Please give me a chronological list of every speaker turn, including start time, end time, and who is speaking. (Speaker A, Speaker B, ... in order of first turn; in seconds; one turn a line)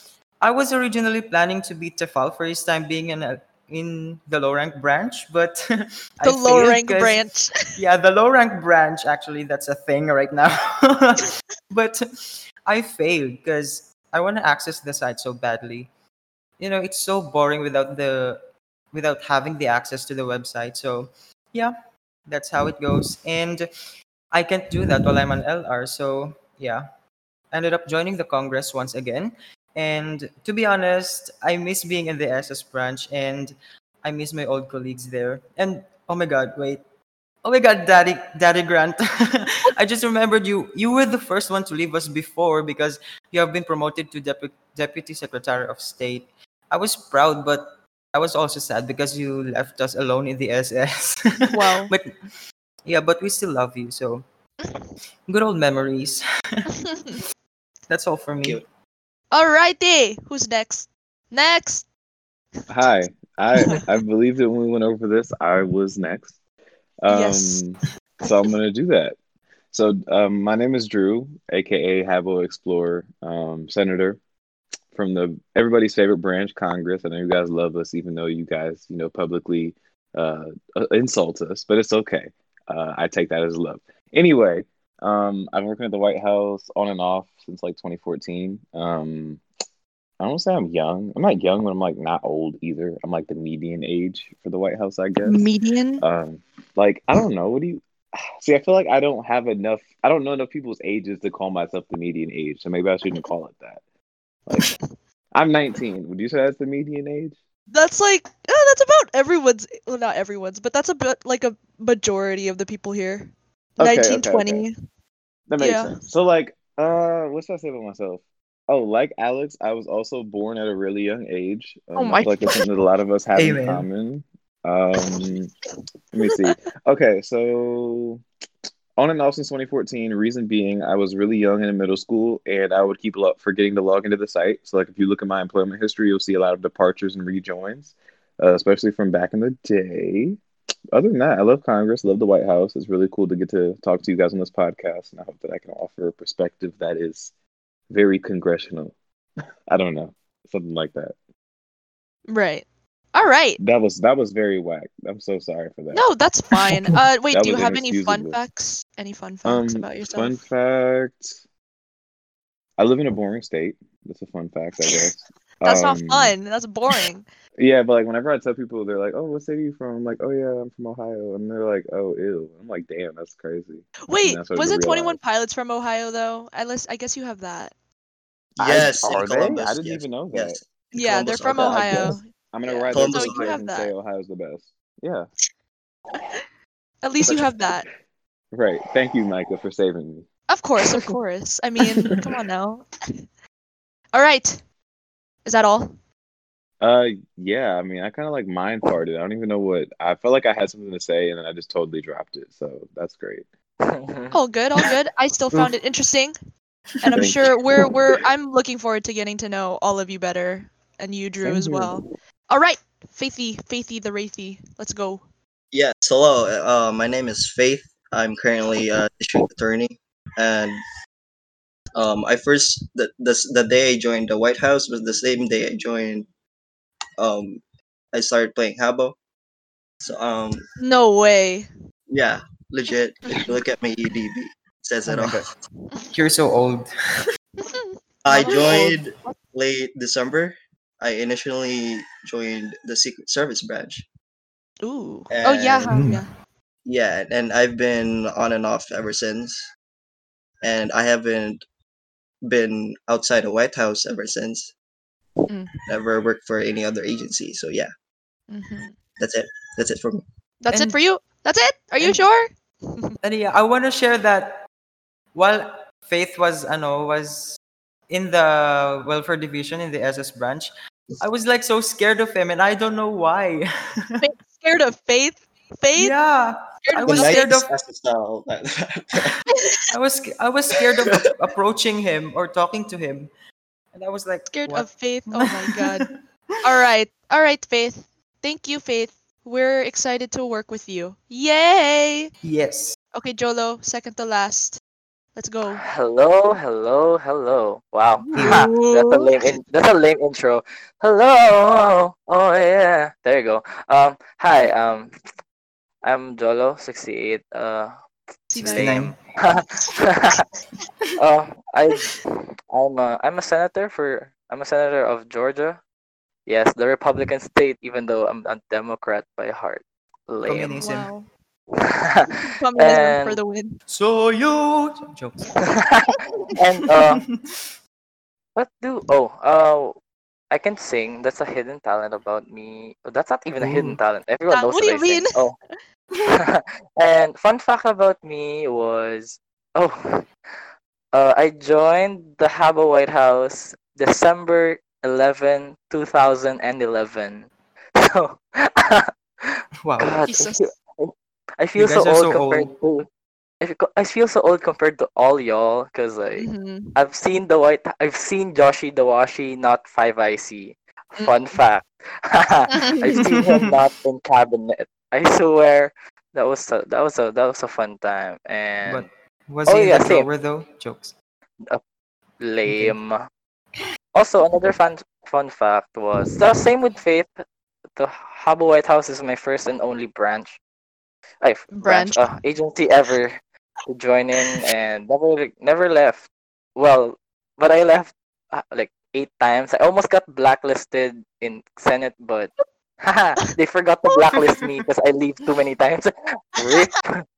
Speaker A: 0.4-15.9
Speaker B: 6.2-7.5
Speaker A: 16.6-21.7
Speaker A: 22.3-23.6
Speaker A: 24.3-26.8
Speaker A: 27.5-36.8
Speaker A: 37.4-52.1
Speaker B: 51.5-51.9
Speaker A: 52.8-54.2
Speaker A: 55.3-57.2
Speaker B: 56.9-57.2
Speaker A: 57.9-58.6
Speaker B: 59.3-61.9
Speaker C: 62.7-66.3
Speaker C: 67.0-69.2
Speaker B: 67.1-67.7
Speaker C: 69.7-74.2
Speaker C: 74.9-89.4
Speaker C: 90.2-95.5
Speaker B: 95.2-96.0
Speaker C: 96.0-103.8
Speaker C: 104.5-104.7
Speaker C: 105.3-107.3
Speaker B: 107.7-114.7
Speaker C: 113.8-114.7
Speaker C: 115.5-125.5
Speaker B: 115.6-116.0
Speaker B: 122.0-122.6
Speaker A: 123.3-123.9
Speaker C: 126.1-128.2
Speaker B: 126.2-126.5
Speaker C: 129.0-140.4
Speaker C: 140.9-147.3
Speaker C: 147.9-148.9
Speaker C: 149.7-151.1
Speaker B: 152.3-153.6
Speaker C: 153.6-156.1
Speaker B: 155.9-160.4
Speaker C: 157.3-158.4
Speaker C: 159.4-161.4
Speaker C: 162.8-166.3
Speaker B: 165.6-167.2
Speaker C: 167.6-175.2
Speaker B: 174.1-177.7
Speaker D: 178.6-182.2
Speaker C: 178.6-180.6
Speaker B: 180.9-183.9
Speaker C: 182.5-185.3
Speaker D: 182.9-183.6
Speaker B: 187.0-187.8
Speaker C: 187.2-187.7
Speaker C: 188.5-190.2
Speaker B: 190.5-192.8
Speaker B: 194.1-194.6
Speaker B: 195.4-195.9
Speaker C: 196.8-203.4
Speaker E: 203.8-204.3
Speaker B: 204.3-206.3
Speaker B: 207.0-215.2
Speaker C: 211.4-211.9
Speaker D: 215.7-220.8
Speaker D: 221.9-226.3
Speaker D: 227.2-227.6
Speaker D: 228.1-229.2
Speaker D: 230.0-230.6
Speaker B: 230.8-231.7
Speaker D: 232.1-235.5
Speaker A: 235.1-235.5
Speaker A: 236.1-237.3
Speaker B: 237.6-239.3
Speaker D: 238.2-244.1
Speaker B: 244.8-246.3
Speaker D: 245.3-246.0
Speaker A: 245.9-246.2
Speaker D: 246.8-249.7
Speaker D: 250.6-251.6
Speaker D: 252.4-254.7
Speaker D: 255.9-257.9
Speaker B: 258.5-258.9
Speaker D: 259.2-260.2
Speaker B: 260.6-263.1
Speaker A: 260.7-261.0
Speaker A: 263.2-264.6
Speaker A: 265.3-274.2
Speaker B: 274.2-276.1
Speaker A: 275.9-277.7
Speaker B: 276.8-277.6
Speaker D: 277.0-279.4
Speaker A: 279.9-283.3
Speaker D: 280.8-281.2
Speaker A: 283.9-286.1
Speaker B: 284.5-286.1
Speaker B: 286.6-292.3
Speaker A: 292.4-292.9
Speaker B: 293.1-294.8
Speaker B: 295.4-295.8
Speaker E: 295.7-305.1
Speaker B: 298.2-299.3
Speaker A: 298.3-298.7
Speaker E: 306.0-307.9
Speaker B: 308.5-309.1
Speaker A: 308.6-309.2
Speaker E: 308.6-310.4
Speaker E: 311.1-315.8
Speaker E: 316.4-320.8
Speaker A: 320.4-321.1
Speaker B: 320.8-321.3
Speaker E: 321.8-323.4
Speaker B: 322.4-323.8
Speaker A: 323.9-325.7
Speaker E: 325.6-327.2
Speaker A: 326.8-327.7
Speaker E: 328.6-329.9
Speaker E: 330.5-335.5
Speaker A: 333.6-334.0
Speaker B: 334.5-335.4
Speaker E: 336.2-340.3
Speaker E: 341.1-353.1
Speaker A: 349.8-350.3
Speaker B: 350.3-350.7
Speaker A: 351.7-352.7
Speaker E: 353.6-369.1
Speaker B: 356.4-356.9
Speaker B: 362.7-363.2
Speaker A: 363.1-363.8
Speaker A: 368.8-371.1
Speaker E: 369.6-370.3
Speaker E: 372.4-373.2
Speaker A: 372.6-372.9
Speaker E: 374.1-377.3
Speaker E: 377.9-380.6
Speaker E: 381.4-397.2
Speaker B: 381.7-382.3
Speaker A: 394.4-394.8
Speaker B: 396.6-396.9